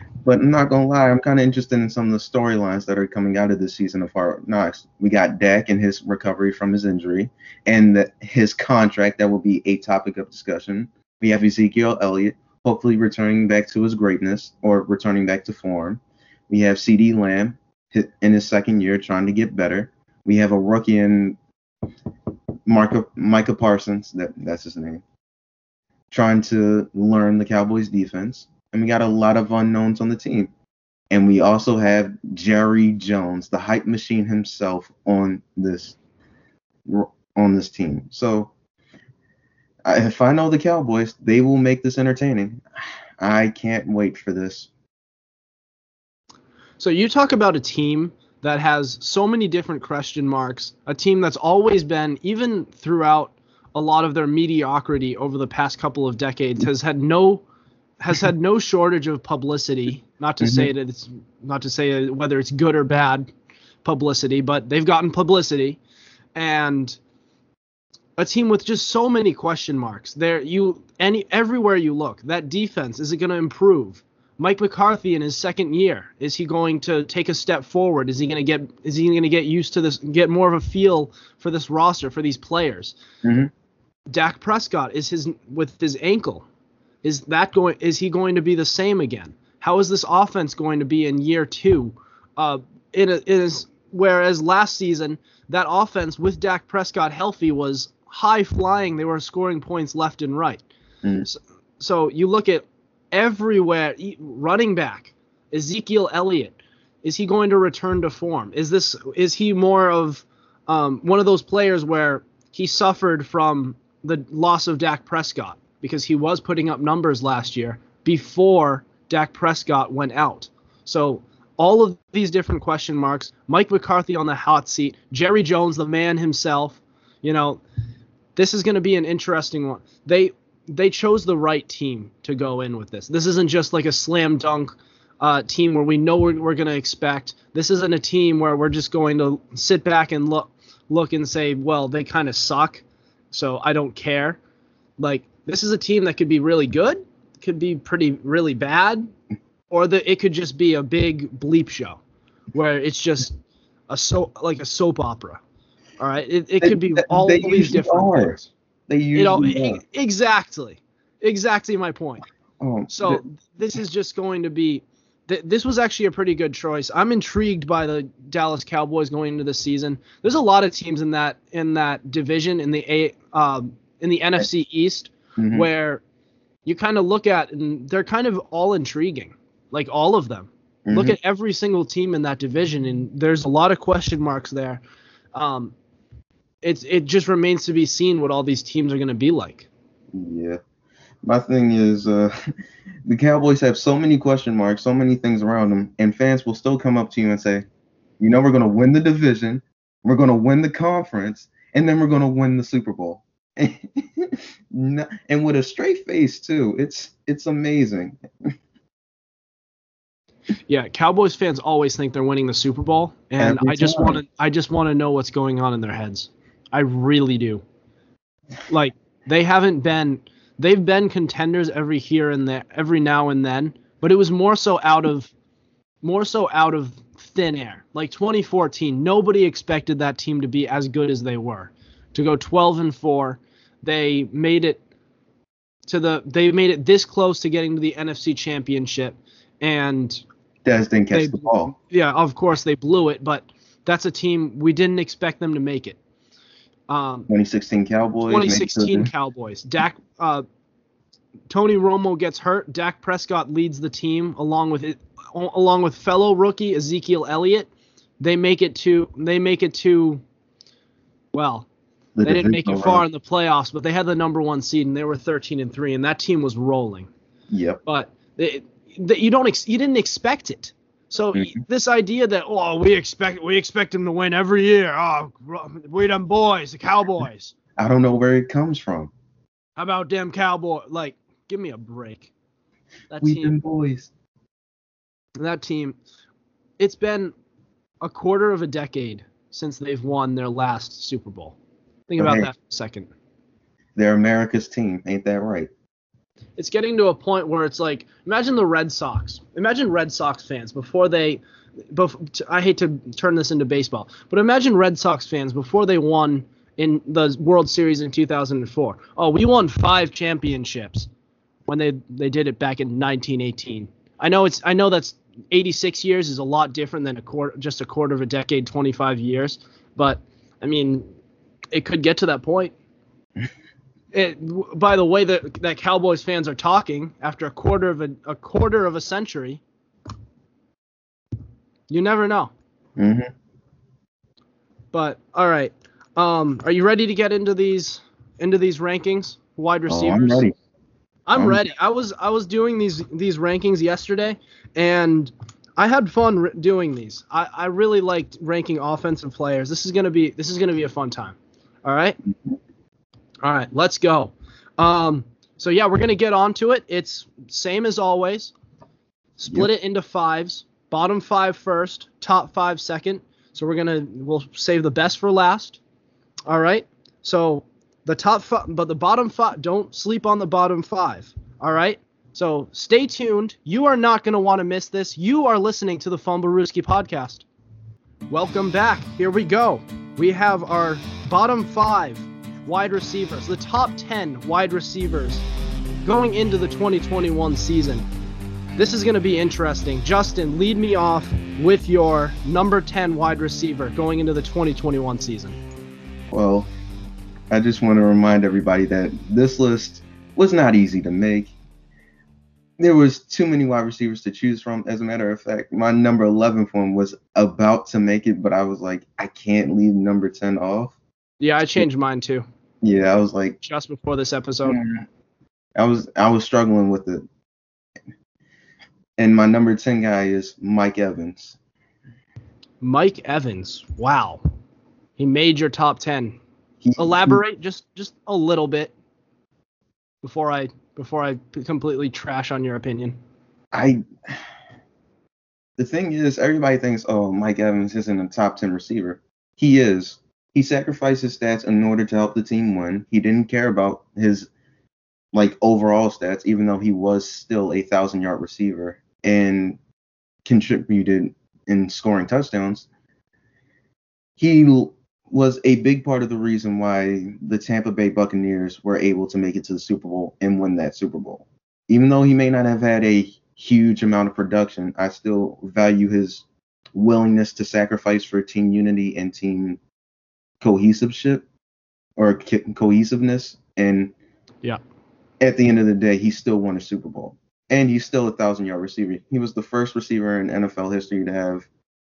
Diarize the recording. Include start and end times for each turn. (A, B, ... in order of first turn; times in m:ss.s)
0:00.2-0:21.4 A
0:22.7-0:25.0 A
0:26.1-0:30.5 A
0:31.1-0:36.0 A
0:36.8-0:38.5 A
0:39.8-0:42.6 A
0:43.2-0:44.7 A
0:46.8-0:57.4 B
0:58.0-1:03.3 B
1:00.4-1:00.7 A
1:03.8-1:05.8 B
1:06.3-1:07.0 B
1:08.2-1:23.0 B
1:23.2-1:23.5 A
1:24.1-1:26.4 B
1:27.0-1:40.6 B
1:41.2-2:07.6 B
2:08.4-2:24.4 B
2:25.0-2:29.1 B
2:29.7-2:32.0 B
2:32.5-2:33.4 B
2:33.9-2:35.4 B
2:36.0-2:38.5 B
2:36.6-2:39.8 A
2:39.1-2:42.2 B
2:42.6-2:43.2 A
2:42.9-2:56.0 B
2:55.4-2:55.7 A
2:56.6-3:04.8 B
3:00.8-3:01.2 A
3:05.3-3:05.7 B
3:06.6-3:09.7 B
3:10.1-3:10.6 A
3:11.2-3:12.3 A
3:13.1-3:17.6 A
3:18.2-3:28.2 A
3:30.7-3:37.6 B
3:33.4-3:34.2 A
3:38.7-3:45.3 B
3:46.0-3:54.8 B
3:55.9-4:00.2 B
4:00.6-4:01.7 A
4:01.1-4:06.0 B
4:06.9-4:07.3 B
4:07.3-4:09.1 A
4:08.3-4:10.4 B
4:11.5-4:17.7 B
4:18.2-4:20.2 B
4:21.3-4:21.7 B
4:22.2-4:23.0 A
4:22.2-4:27.1 B
4:27.5-4:27.8 A
4:27.8-4:37.5 B
4:37.8-4:39.1 A
4:39.8-4:42.3 B
4:43.1-4:43.6 B
4:43.2-4:44.1 A
4:45.4-4:46.0 B
4:46.8-4:47.3 B
4:48.0-4:51.6 B
4:52.1-4:53.1 B
4:52.2-4:52.5 A
4:54.0-4:55.7 A
4:56.6-5:01.4 B
5:01.9-5:11.1 B
5:11.7-5:21.0 B
5:21.7-5:22.7 B
5:24.1-5:29.6 B
5:31.9-5:32.5 B
5:33.0-5:33.3 A
5:34.9-5:40.5 B
5:39.9-5:40.5 A
5:41.3-5:52.2 B
5:41.3-5:41.6 A
5:53.4-5:58.5 B
5:59.4-6:05.8 B
6:06.5-6:17.4 B
6:18.3-6:25.4 B
6:26.0-6:28.1 B
6:28.8-6:35.6 B
6:36.3-6:36.7 A
6:37.5-6:41.6 A
6:42.8-6:51.0 A
6:51.4-6:52.4 B
6:52.8-6:53.6 A
6:53.6-6:54.8 B
6:54.6-6:55.0 A
6:55.8-6:57.2 A
6:59.2-7:01.6 A
7:02.8-7:04.4 B
7:05.2-7:06.4 B
7:06.8-7:07.4 A
7:07.0-7:08.9 B
7:10.2-7:13.2 B
7:13.7-7:14.4 A
7:15.8-7:24.5 A
7:25.3-7:29.8 A
7:30.4-7:32.9 A
7:34.4-7:49.8 A
7:50.6-7:51.4 A
7:52.2-7:54.1 A
7:55.4-8:01.7 A